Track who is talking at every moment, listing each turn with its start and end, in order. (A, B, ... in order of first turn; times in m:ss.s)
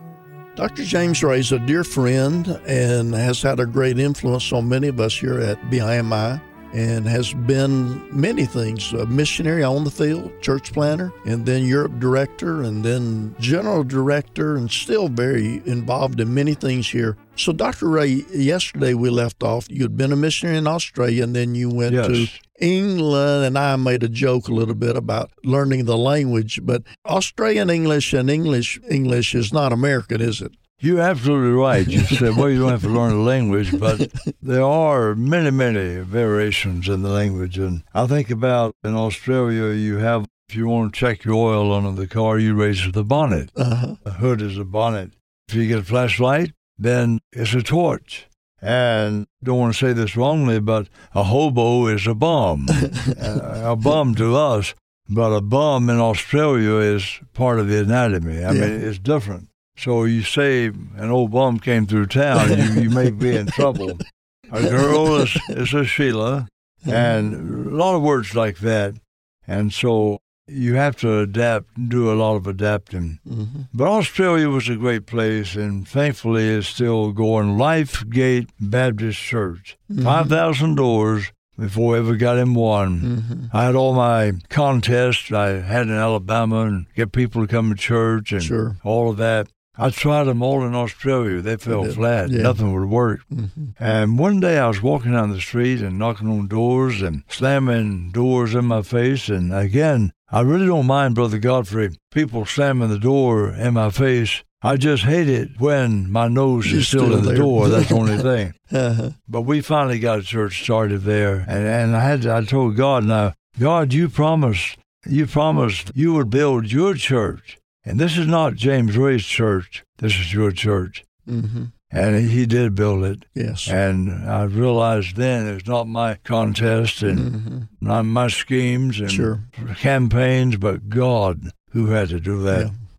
0:00.6-0:30.6 A
0:21.9-0:22.4 B
0:30.8-0:43.5 B
0:33.9-0:34.1 A
0:43.6-0:44.0 A
0:44.0-1:13.2 B
0:58.5-0:58.7 A
1:06.8-1:07.1 A
1:13.2-1:13.7 A
1:13.7-1:33.2 B
1:19.9-1:20.3 A
1:23.0-1:23.5 A
1:28.4-1:28.8 A
1:31.7-1:32.6 A
1:33.3-1:33.7 A
1:33.8-1:48.5 B
1:46.6-1:49.1 A
1:49.3-2:01.0 B
2:01.2-2:01.7 A
2:01.9-2:07.3 B
2:03.3-2:03.7 A
2:07.1-2:07.7 A
2:07.8-2:12.7 B
2:09.1-2:09.4 A